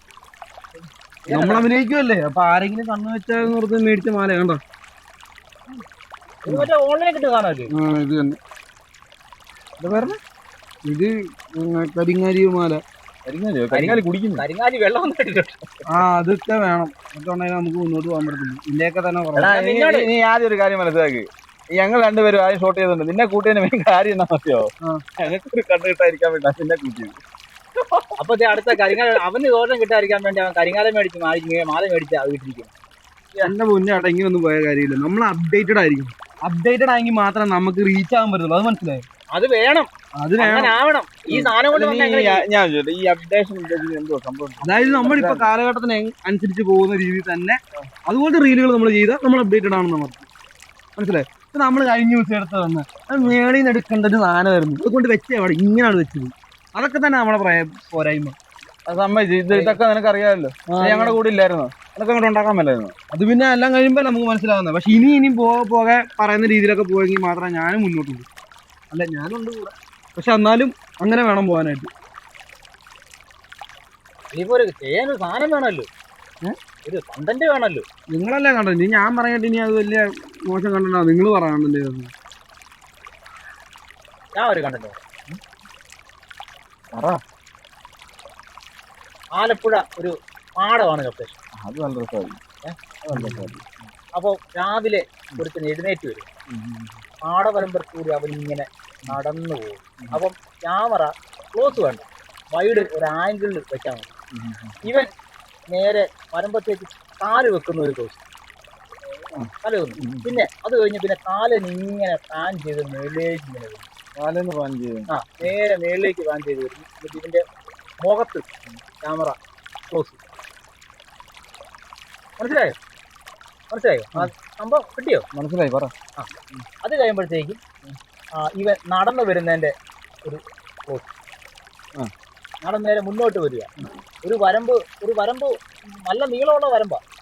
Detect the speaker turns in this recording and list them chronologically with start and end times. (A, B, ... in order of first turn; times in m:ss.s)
0:01.2-0:01.7 A
0:01.3-0:04.6 B
0:06.4-0:07.7 A
0:07.7-0:08.4 B
0:09.8-0:10.2 C
0:10.8-0:12.8 B
0:13.3-0:14.4 C
0:13.7-0:15.6 A
0:15.9-0:19.5 B
0:19.4-0:27.2 C
0:19.4-0:20.1 A
0:27.8-0:28.1 C
0:28.2-0:32.7 A
0:33.4-0:39.0 B
0:39.3-0:42.4 A
0:40.2-0:40.8 B
0:41.3-0:45.5 C
0:44.6-0:50.3 B
0:51.0-0:58.3 B
0:58.9-1:02.9 C
0:59.5-0:59.8 A
1:00.7-1:01.2 B
1:03.1-1:08.3 B
1:08.9-1:11.9 B
1:14.3-1:15.9 A
1:16.8-1:17.8 A
1:18.1-1:22.1 B
1:24.3-1:25.0 A
1:26.9-1:27.2 C
1:29.4-1:31.4 A
1:31.6-1:32.4 C
1:33.0-1:33.7 C
1:33.1-1:33.4 B
1:34.2-1:36.3 A
1:36.5-1:36.9 C
1:37.2-1:44.1 A
1:44.3-1:44.8 C
1:44.8-1:45.1 A
1:45.7-1:48.2 A
1:49.6-1:53.8 A
1:50.0-1:50.4 C
1:54.2-1:55.5 C
1:55.1-1:57.4 A
1:58.0-1:58.5 A
1:59.0-1:59.4 A
1:59.9-2:00.2 A
2:02.4-2:02.7 A
2:03.7-2:05.3 A
2:05.3-2:05.9 C
2:06.8-2:07.6 A
2:08.3-2:09.7 A
2:10.2-2:11.1 A
2:12.6-2:13.7 A
2:14.2-2:17.0 A